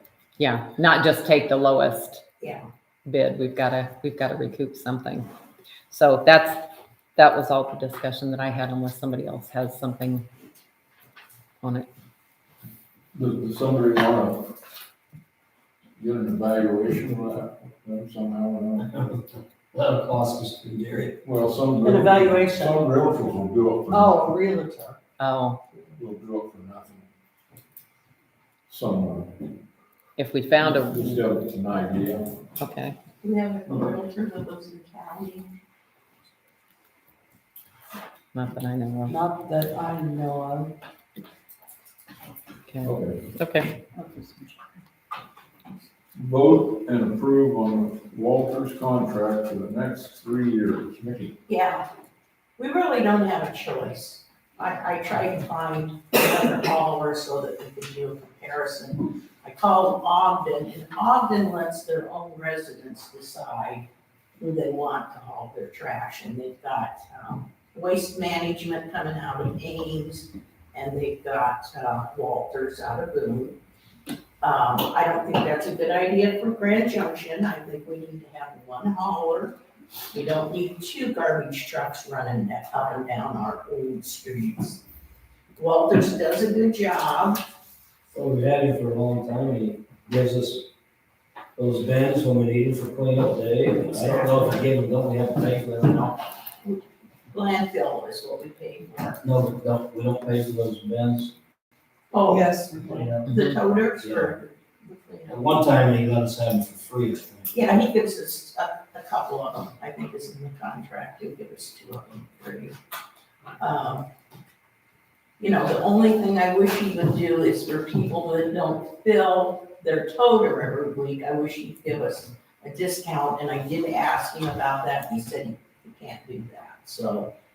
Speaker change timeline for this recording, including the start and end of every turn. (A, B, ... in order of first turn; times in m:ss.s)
0:00.4-0:02.2 A
0:03.0-0:05.3 A
0:05.9-0:10.2 A
0:11.6-0:11.9 A
0:13.1-0:14.6 B
0:16.0-0:19.0 B
0:18.9-0:19.2 C
0:19.7-0:21.2 C
0:21.2-0:24.2 B
0:21.8-0:22.8 D
0:23.9-0:25.0 D
0:25.2-0:25.6 A
0:26.0-0:27.1 B
0:28.7-0:29.6 B
0:30.2-0:31.2 A
0:30.6-0:32.4 B
0:32.6-0:33.0 A
0:33.2-0:35.5 E
0:38.3-0:39.2 A
0:39.1-0:40.7 D
0:42.7-0:43.8 A
0:42.8-0:43.3 B
0:46.1-0:51.4 B
0:51.5-0:51.8 E
0:52.6-1:03.9 E
1:04.4-1:13.6 E
1:14.4-1:19.6 E
1:20.1-1:24.8 E
1:25.6-1:27.4 E
1:28.1-1:30.7 C
1:31.6-1:36.2 C
1:33.9-1:34.6 E
1:36.6-1:39.2 E
1:39.2-1:41.3 C
1:42.1-1:45.5 E
1:42.3-1:43.2 D
1:42.8-1:43.3 C
1:43.3-1:43.6 A
1:44.0-1:44.3 C
1:45.3-1:47.5 C
1:47.5-1:52.8 E
1:53.6-1:54.1 E
1:55.4-2:07.3 E